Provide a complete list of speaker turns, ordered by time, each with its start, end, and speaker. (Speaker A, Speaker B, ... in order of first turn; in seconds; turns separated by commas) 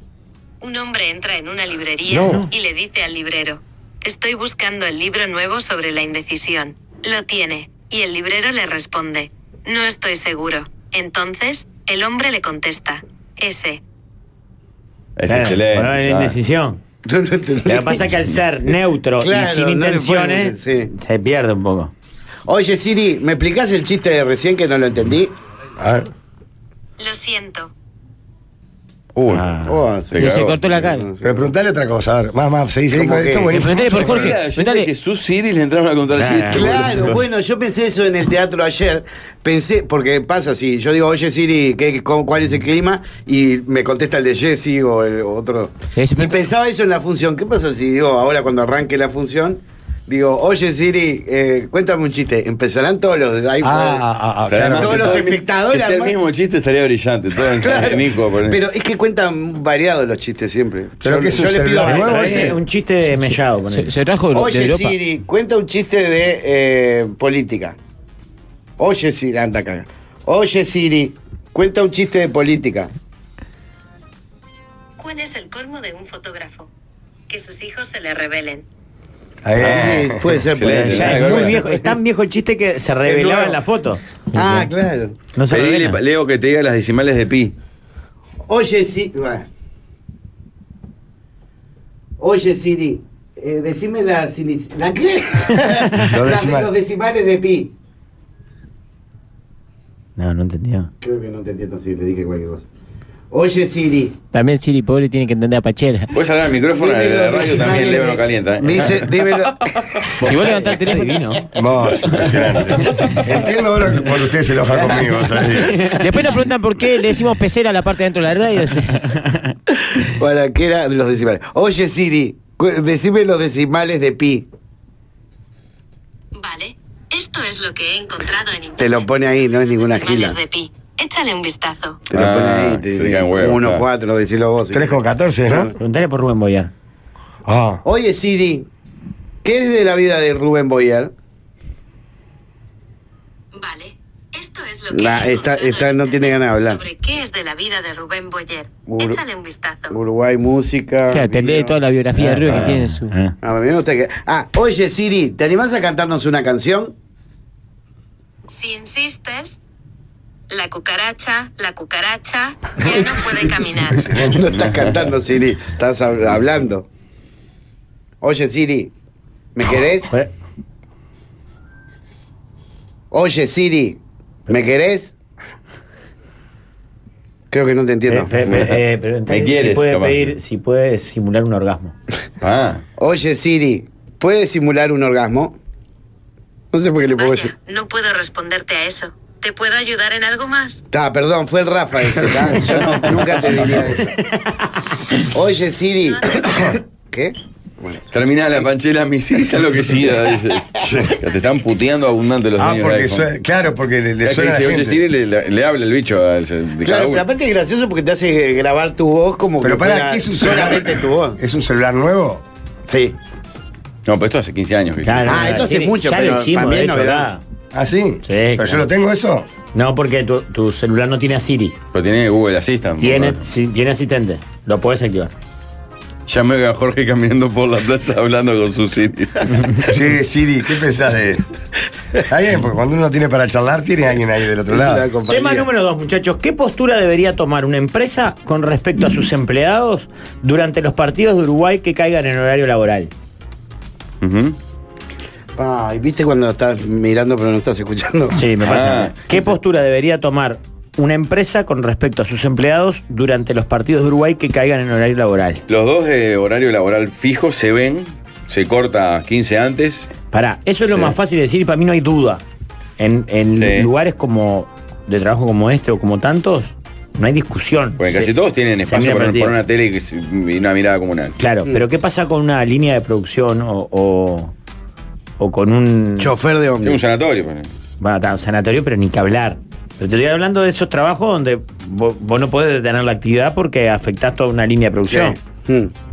Speaker A: 0.6-13.8, Speaker B: 2.1-2.4, Speaker C: 15.2-16.3, Speaker D: 15.3-16.8, Speaker E: 17.1-18.1, Speaker D: 17.6-21.9, Speaker E: 19.2-20.9, Speaker E: 22.5-25.3, Speaker B: 25.8-26.1, Speaker A: 27.0-27.7, Speaker C: 29.1-29.5, Speaker D: 29.3-29.8, Speaker E: 29.6-31.4, Speaker F: 30.1-31.1, Speaker C: 30.1-30.6, Speaker B: 31.2-34.4, Speaker E: 32.9-33.6, Speaker F: 33.5-34.9, Speaker C: 33.7-37.1, Speaker D: 36.1-37.2, Speaker E: 36.5-54.0, Speaker F: 46.0-46.4, Speaker B: 53.6-55.2, Speaker C: 54.5-58.6, Speaker E: 54.6-56.1, Speaker E: 57.5-62.6, Speaker B: 61.0-62.5, Speaker D: 61.8-63.9, Speaker F: 63.1-64.9, Speaker E: 64.3-67.8, Speaker E: 68.8-72.9, Speaker A: 75.0-76.7, Speaker A: 77.3-78.6, Speaker B: 79.4-80.3, Speaker C: 79.6-81.6, Speaker E: 79.6-81.8, Speaker D: 80.7-84.0, Speaker E: 83.0-83.6, Speaker E: 84.3-85.1, Speaker D: 85.3-86.0, Speaker C: 85.5-87.5, Speaker E: 88.5-89.5, Speaker E: 92.2-97.7, Speaker D: 95.8-96.1, Speaker B: 96.0-96.7, Speaker D: 100.2-100.9, Speaker E: 101.0-102.6, Speaker E: 103.3-104.1, Speaker F: 104.3-106.1, Speaker C: 106.1-109.3, Speaker E: 106.7-109.6, Speaker F: 110.2-111.3, Speaker D: 110.2-111.5, Speaker B: 111.5-115.8, Speaker D: 115.4-116.0, Speaker F: 116.0-119.1, Speaker E: 120.0-124.5, Speaker A: 126.3-132.0, Speaker E: 128.8-130.4, Speaker E: 132.1-135.0, Speaker C: 132.1-133.8, Speaker B: 134.7-135.7, Speaker D: 135.8-136.7, Speaker B: 137.4-137.8, Speaker E: 137.8-138.7, Speaker E: 139.4-141.1, Speaker A: 143.5-150.0, Speaker E: 144.9-146.8, Speaker E: 148.8-149.2, Speaker E: 149.9-151.8, Speaker F: 151.1-153.1, Speaker D: 152.2-153.3, Speaker C: 152.5-152.8, Speaker E: 153.4-156.9, Speaker A: 158.5-159.6, Speaker A: 160.5-164.1, Speaker B: 164.0-164.4, Speaker E: 164.1-166.8, Speaker C: 164.5-164.9, Speaker E: 168.2-168.9, Speaker E: 169.5-170.1, Speaker E: 173.1-175.1, Speaker E: 177.5-178.7, Speaker D: 178.1-181.9, Speaker C: 179.3-180.3, Speaker C: 182.4-182.8, Speaker E: 183.0-185.6, Speaker E: 186.7-187.5, Speaker A: 187.2-190.8, Speaker E: 190.9-194.1, Speaker E: 195.3-198.0, Speaker A: 196.1-196.4, Speaker C: 198.1-203.3, Speaker B: 200.8-201.1, Speaker B: 202.6-205.0, Speaker C: 204.2-207.2, Speaker E: 206.8-211.4, Speaker B: 209.6-212.4, Speaker E: 212.8-213.2, Speaker C: 214.1-215.6, Speaker D: 215.0-217.4, Speaker E: 215.2-217.3, Speaker B: 217.7-219.5, Speaker D: 218.2-218.8, Speaker D: 219.7-221.8, Speaker C: 221.9-223.4, Speaker D: 223.0-225.3, Speaker C: 226.3-229.9, Speaker B: 229.8-231.4, Speaker B: 232.3-235.1, Speaker E: 234.7-235.7, Speaker D: 235.3-243.1, Speaker C: 244.2-244.6, Speaker E: 245.6-248.3, Speaker D: 248.3-255.6, Speaker C: 248.6-249.4, Speaker C: 255.7-260.1, Speaker D: 260.3-262.4, Speaker C: 260.8-261.1, Speaker D: 263.0-269.5, Speaker C: 263.6-263.9, Speaker C: 268.0-271.4, Speaker D: 271.4-274.5, Speaker D: 275.4-276.3, Speaker E: 276.2-277.0, Speaker C: 276.8-277.7, Speaker D: 278.0-285.4, Speaker E: 285.1-285.9